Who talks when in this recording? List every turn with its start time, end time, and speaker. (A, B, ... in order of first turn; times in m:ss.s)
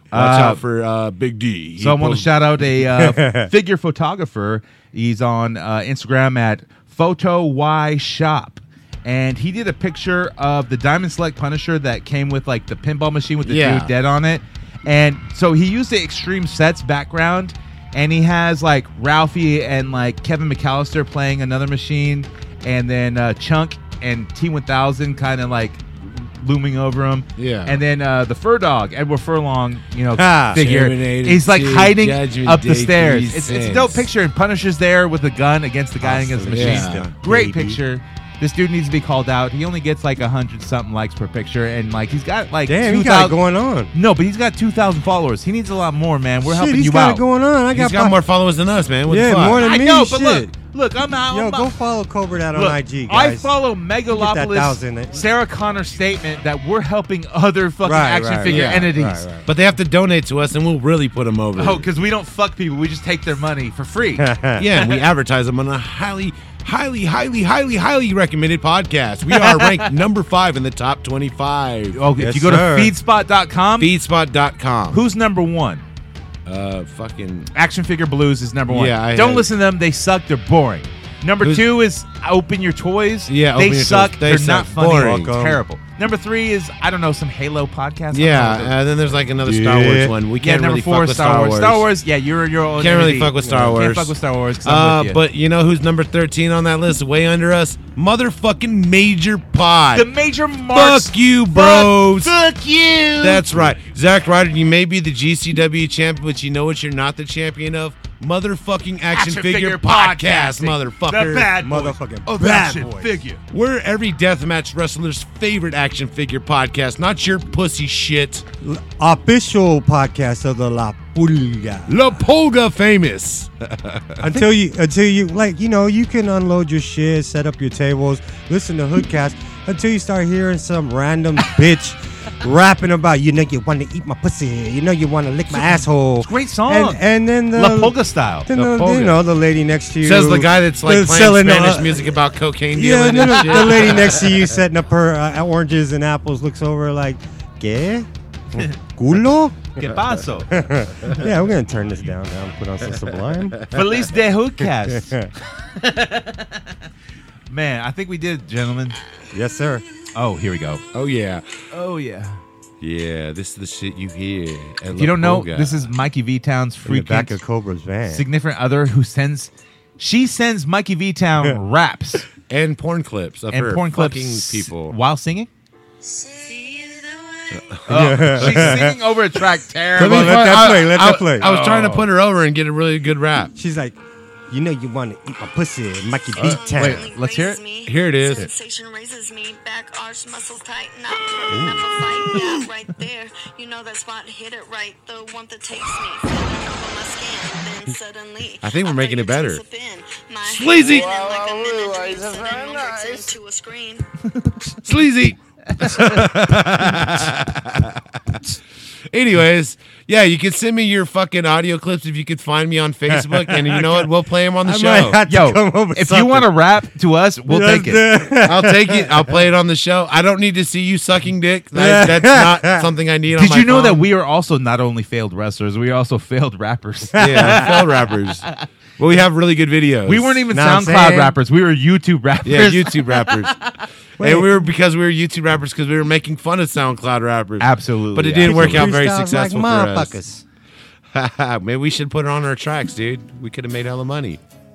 0:00.1-0:00.6 A
0:00.1-0:02.3 B
0:01.8-0:43.4 A
0:02.9-0:03.5 C
0:13.4-0:13.9 B
0:27.4-0:27.8 B
0:30.1-0:30.6 C
0:30.5-0:34.0 B
0:36.0-0:37.8 C
0:36.5-0:37.1 B
0:42.7-0:43.9 C
0:43.9-0:47.2 A
0:46.4-0:48.2 C
0:47.7-0:49.6 B
0:49.0-0:50.5 C
0:49.6-0:51.7 A
0:51.3-0:53.5 C
0:52.5-0:59.2 A
0:54.1-0:55.2 C
0:57.8-0:59.5 C
0:58.4-0:58.9 B
0:59.4-1:01.9 B
1:01.6-1:05.0 A
1:04.2-1:04.7 C
1:04.6-1:12.0 B
1:09.3-1:09.9 A
1:11.9-1:13.9 A
1:12.2-1:12.9 C
1:13.8-1:15.0 B
1:14.9-1:15.8 A
1:16.4-1:17.5 B
1:17.5-1:28.8 A
1:18.7-1:19.5 B
1:23.3-1:25.4 B
1:25.0-1:25.6 C
1:28.1-1:31.8 B
1:29.4-1:30.1 C
1:30.4-1:35.2 A
1:32.8-1:34.1 B
1:34.6-1:40.0 B
1:39.9-1:43.7 A
1:40.7-1:42.3 B
1:43.2-1:51.5 B
1:49.1-1:53.4 A
1:51.4-1:53.2 C
1:53.5-1:58.4 B
1:58.6-2:02.2 C
2:01.9-2:04.3 B
2:04.2-2:22.1 C
2:15.5-2:18.5 A
2:18.5-2:19.2 B
2:20.0-2:24.3 B
2:22.7-2:29.8 C
2:29.8-2:30.5 A
2:30.5-2:33.6 C
2:33.7-2:35.2 A
2:34.6-2:35.3 C
2:35.8-2:36.7 A
2:37.5-2:39.0 A
2:39.3-2:39.8 C
2:40.1-2:40.8 A
2:40.9-2:41.5 B
2:41.7-2:42.4 A
2:42.8-2:45.9 B
2:44.9-2:47.4 A
2:46.8-2:48.2 C
2:48.1-2:52.3 A
2:52.5-2:54.9 B
2:53.5-2:55.5 A
2:56.0-2:57.8 D
2:57.6-2:58.8 B
2:57.8-3:00.8 A
2:57.9-2:59.0 C
3:00.0-3:01.5 C
3:00.0-3:03.5 B
3:01.4-3:02.1 A
3:03.6-3:04.0 C
3:04.5-3:07.0 C
3:06.4-3:06.6 B
3:06.4-3:24.0 D
3:06.6-3:07.6 A
3:07.8-3:08.5 B
3:11.5-3:12.4 B
3:18.6-3:19.6 B
3:20.4-3:21.3 B
3:24.8-3:28.4 B
3:29.1-3:35.2 B
3:33.1-3:36.5 C
3:35.2-3:38.2 A
3:37.5-3:39.4 C
3:38.4-3:44.0 B
3:41.7-3:42.9 C
3:43.3-3:48.7 A
3:47.2-3:47.7 C
3:47.2-3:48.5 B
3:49.0-3:50.4 B
3:50.1-3:53.7 A
3:50.5-3:51.4 C
3:52.4-3:53.6 B
3:54.2-3:54.7 C
3:54.2-4:00.2 B
3:57.6-3:58.9 A
3:58.4-4:00.4 C
4:01.1-4:04.4 B